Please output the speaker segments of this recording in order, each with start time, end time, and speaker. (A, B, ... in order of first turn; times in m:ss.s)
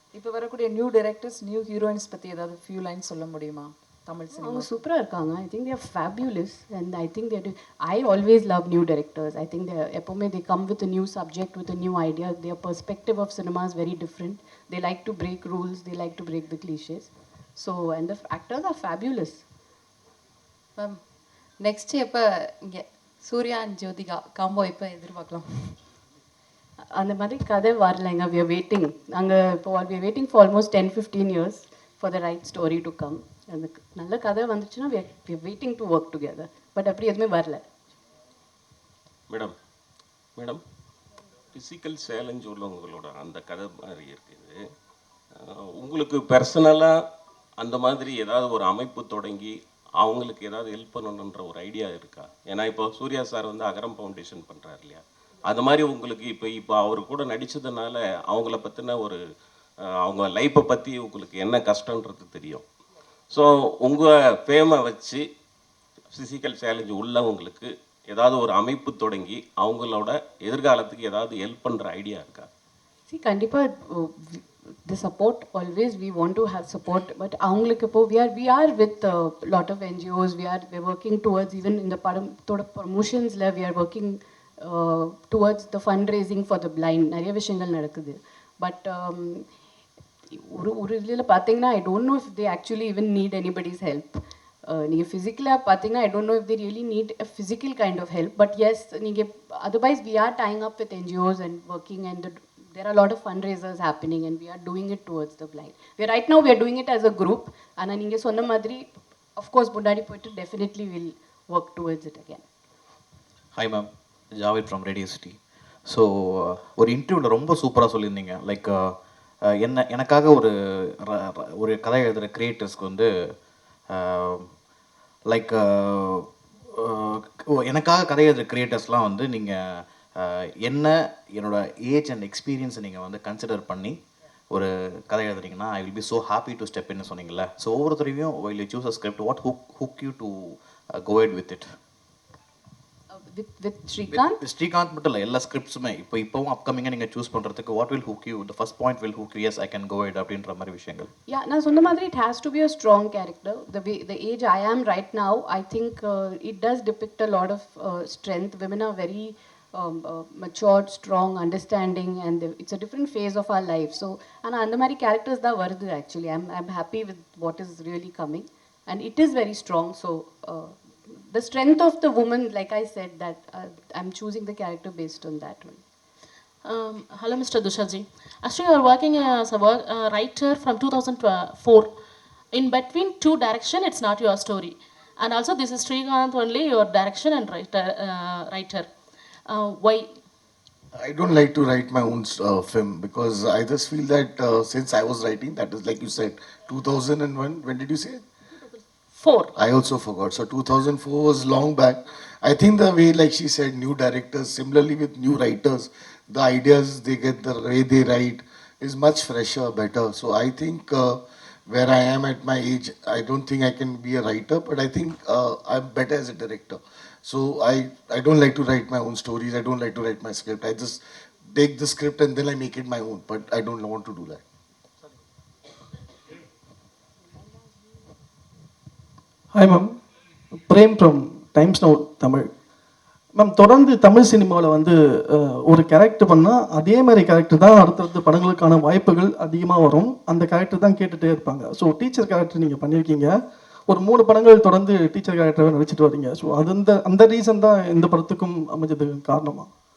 0:00.1-0:04.7 A
0:04.3-0:19.4 B
0:21.6-0:25.7 C
0:26.9-0:37.6 B
0:41.5-0:44.5 D
0:45.7-0:46.9 D
0:47.6-0:59.2 D
1:00.0-1:02.6 D
1:03.3-1:05.2 D
1:06.1-1:12.4 D
1:13.1-1:29.4 B
1:30.3-1:52.4 B
1:53.5-1:58.9 E
1:59.4-2:03.3 E
2:03.9-2:04.5 E
2:05.3-2:14.0 E
2:14.5-2:21.7 E
2:23.1-2:24.4 B
2:24.1-2:31.1 E
2:31.3-2:55.8 B
2:56.6-3:01.9 F
3:02.5-3:08.9 F
3:09.5-3:10.2 F
3:10.9-3:18.2 G
3:19.1-3:19.5 F
3:19.5-3:44.4 G
3:49.5-3:50.0 H
3:50.5-3:52.5 H
3:53.4-4:03.3 H
4:03.9-4:09.7 H